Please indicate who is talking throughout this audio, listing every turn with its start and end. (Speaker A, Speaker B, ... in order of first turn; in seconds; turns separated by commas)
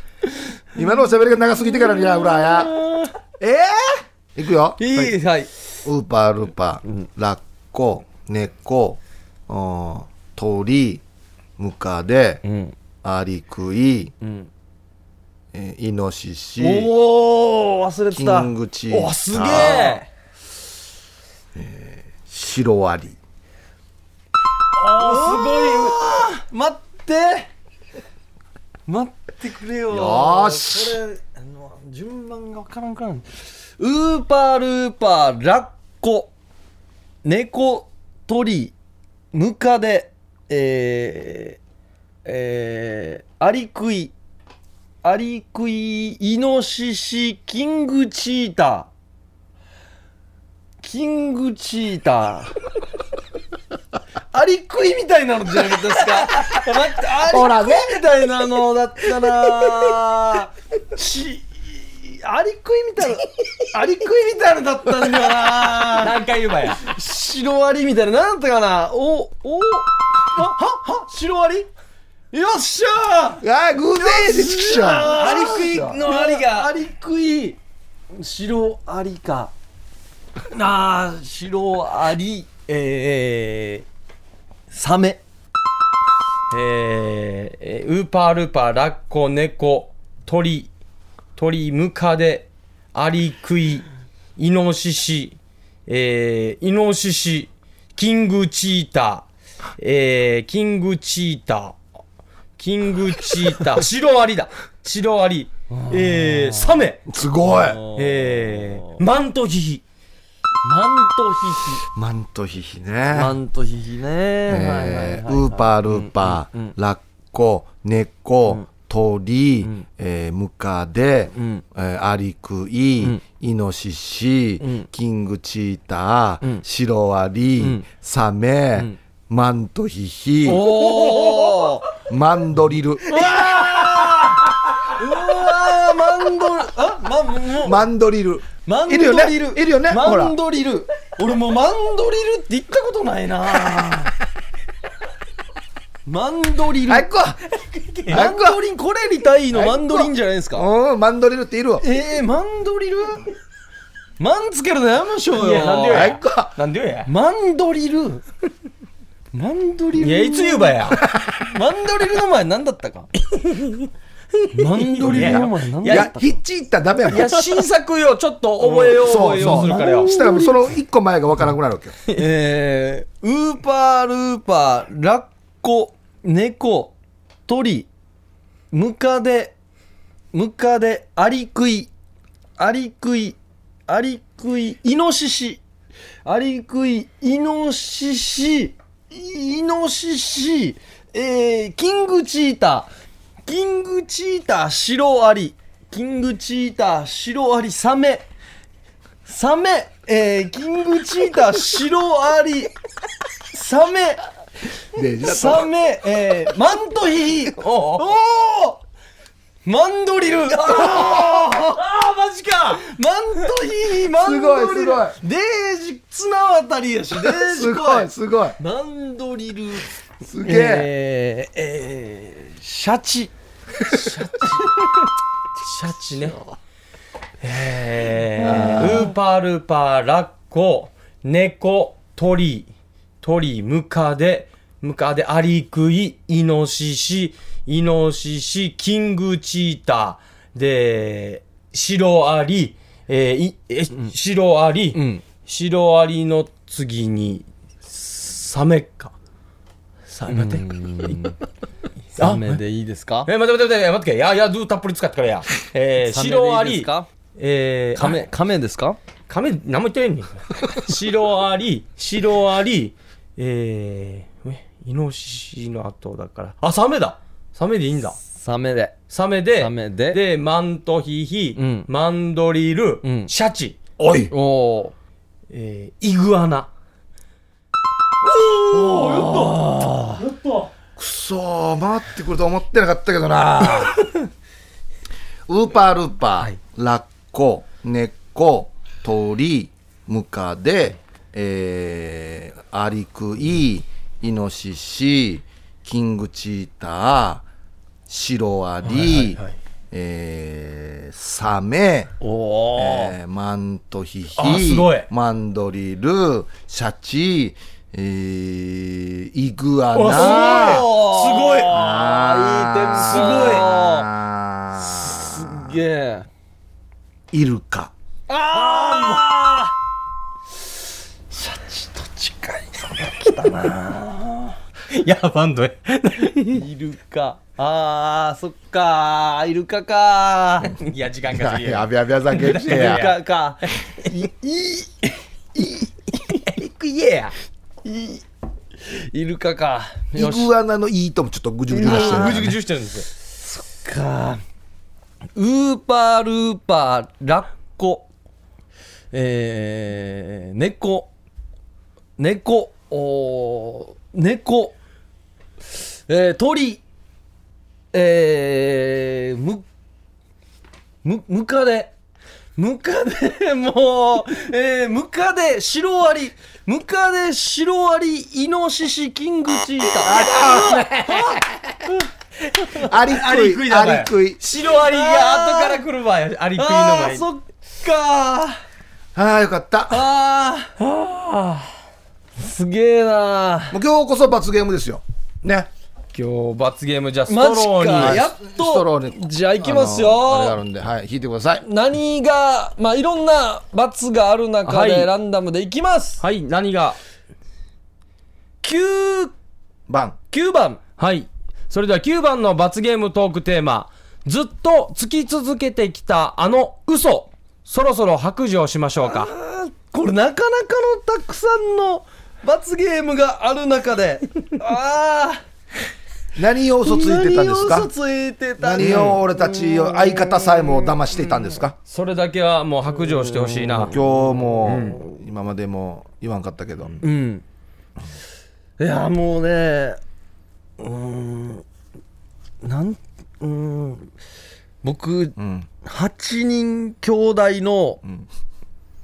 Speaker A: 0.8-2.8, Speaker B: 2.4-3.1, Speaker A: 3.4-5.1, Speaker B: 4.8-5.5, Speaker A: 5.8-11.0, Speaker A: 11.6-12.4, Speaker B: 12.4-12.8, Speaker A: 13.0-14.1, Speaker B: 14.2-14.5, Speaker A: 15.5-16.9, Speaker B: 16.6-18.5, Speaker A: 18.1-20.0, Speaker C: 18.9-20.0, Speaker B: 19.4-20.1, Speaker A: 21.6-23.2, Speaker C: 24.8-26.0, Speaker B: 24.8-27.5, Speaker B: 28.9-36.3, Speaker A: 29.9-31.0, Speaker B: 37.2-38.7, Speaker B: 39.3-41.6, Speaker B: 42.2-44.1, Speaker B: 45.0-48.9, Speaker B: 50.8-52.5, Speaker B: 54.3-66.2, Speaker A: 57.3-57.9, Speaker C: 65.8-66.8, Speaker B: 66.8-71.7, Speaker B: 72.3-73.4, Speaker A: 73.4-76.0, Speaker B: 74.0-77.6, Speaker C: 75.2-76.5, Speaker B: 78.1-79.5, Speaker B: 80.5-83.9, Speaker B: 84.7-85.2, Speaker C: 86.5-90.7, Speaker C: 91.4-93.9, Speaker C: 94.4-95.4, Speaker C: 95.9-99.2, Speaker C: 99.8-101.8, Speaker C: 102.6-107.0, Speaker B: 105.7-106.9, Speaker A: 107.1-107.8, Speaker B: 107.4-109.0, Speaker C: 108.0-109.8, Speaker B: 110.6-111.8, Speaker A: 111.9-113.4, Speaker B: 113.1-116.7, Speaker A: 114.5-130.8, Speaker B: 121.3-121.6, Speaker B: 124.6-124.9, Speaker B: 127.6-127.8, Speaker B: 130.4-131.9, Speaker C: 130.9-131.4, Speaker A: 132.1-133.2, Speaker B: 133.1-137.8, Speaker A: 137.6-140.4, Speaker B: 138.7-144.1, Speaker B: 146.1-147.1, Speaker A: 146.9-147.4, Speaker C: 147.6-148.2, Speaker A: 148.1-148.6, Speaker B: 148.1-150.7, Speaker A: 149.5-151.8, Speaker B: 151.8-153.3, Speaker B: 154.2-156.1, Speaker C: 155.4-157.1, Speaker A: 155.9-156.5, Speaker B: 157.1-158.2, Speaker B: 159.3-163.1, Speaker C: 160.0-161.0, Speaker A: 161.0-161.4, Speaker C: 163.3-163.9, Speaker C: 164.4-166.1, Speaker B: 164.5-166.4, Speaker A: 165.0-167.3, Speaker C: 167.1-170.1, Speaker B: 168.7-170.6, Speaker A: 168.8-171.9, Speaker B: 172.2-176.9, Speaker B: 177.5-177.9, Speaker B: 178.7-179.6, Speaker B: 180.3-181.9, Speaker B: 182.6-185.6, Speaker B: 186.2-192.9, Speaker B: 193.5-198.3, Speaker B: 199.3-202.7, Speaker B: 203.5-204.2, Speaker A: 204.9-205.7, Speaker B: 205.2-208.8, Speaker C: 207.6-208.1, Speaker B: 209.7-211.8, Speaker C: 210.8-212.8, Speaker B: 212.8-223.3, Speaker A: 214.2-215.2, Speaker A: 217.2-218.6, Speaker A: 220.2-220.9, Speaker C: 223.9-224.8, Speaker C: 225.6-226.4, Speaker C: 227.4-232.7, Speaker A: 228.4-229.1, Speaker B: 228.4-229.1, Speaker C: 233.2-249.1, Speaker B: 244.9-245.2, Speaker C: 250.1-251.2, Speaker B: 250.3-251.4, Speaker B: 252.2-253.3, Speaker C: 252.2-252.6, Speaker C: 253.3-258.2, Speaker B: 256.0-257.1, Speaker B: 258.0-259.0, Speaker C: 259.3-268.2, Speaker B: 268.4-268.9, Speaker C: 269.1-273.8, Speaker B: 269.6-270.2, Speaker B: 271.6-271.9, Speaker B: 273.0-273.3, Speaker A: 274.0-274.3, Speaker B: 274.3-274.9, Speaker C: 275.5-276.7, Speaker C: 278.2-280.7, Speaker B: 278.7-280.2, Speaker A: 281.0-284.0, Speaker C: 283.7-284.2, Speaker A: 285.5-297.4, Speaker A: 298.1-302.1, Speaker C: 298.9-299.5, Speaker B: 302.2-303.1, Speaker A: 302.8-310.9, Speaker C: 304.4-305.1, Speaker C: 309.9-312.0, Speaker B: 310.1-314.1, Speaker A: 311.7-315.7, Speaker C: 312.9-313.7, Speaker B: 314.8-316.3, Speaker A: 317.3-317.9, Speaker B: 318.3-319.7, Speaker C: 318.5-319.3, Speaker B: 321.3-324.6, Speaker C: 324.9-326.6, Speaker B: 326.5-330.8, Speaker C: 330.8-333.7, Speaker A: 331.3-333.1, Speaker B: 332.5-335.9, Speaker C: 336.3-337.3, Speaker B: 337.8-338.2, Speaker B: 338.8-340.5, Speaker A: 340.1-342.6, Speaker B: 341.7-342.5, Speaker C: 341.8-343.1, Speaker B: 343.4-344.4, Speaker B: 345.4-348.1, Speaker B: 349.1-351.1, Speaker B: 352.2-354.8, Speaker B: 355.8-356.8, Speaker B: 357.9-359.7, Speaker B: 361.0-361.9, Speaker B: 362.6-371.2, Speaker A: 370.0-371.4, Speaker C: 370.5-371.2, Speaker C: 372.7-377.3, Speaker A: 372.8-374.4, Speaker B: 374.8-375.8, Speaker B: 376.6-378.6, Speaker A: 379.1-380.0, Speaker B: 379.9-380.7, Speaker C: 380.8-381.7, Speaker B: 382.4-383.8, Speaker A: 383.7-385.7, Speaker C: 386.1-388.2, Speaker B: 387.3-390.6, Speaker A: 388.0-391.6, Speaker B: 391.6-396.2, Speaker C: 394.7-395.1, Speaker C: 396.2-397.0, Speaker B: 398.6-399.3, Speaker A: 399.9-400.2, Speaker B: 400.3-400.8, Speaker C: 401.0-409.3, Speaker B: 409.0-415.4, Speaker A: 416.4-417.9, Speaker B: 416.8-421.0, Speaker A: 418.6-421.8, Speaker C: 418.8-419.2, Speaker C: 421.9-424.0, Speaker B: 422.9-424.8, Speaker A: 423.9-427.0, Speaker C: 424.6-425.0, Speaker B: 427.0-427.4, Speaker B: 428.8-430.0, Speaker B: 430.8-431.6, Speaker B: 432.6-434.1, Speaker B: 434.8-438.0, Speaker A: 435.4-435.7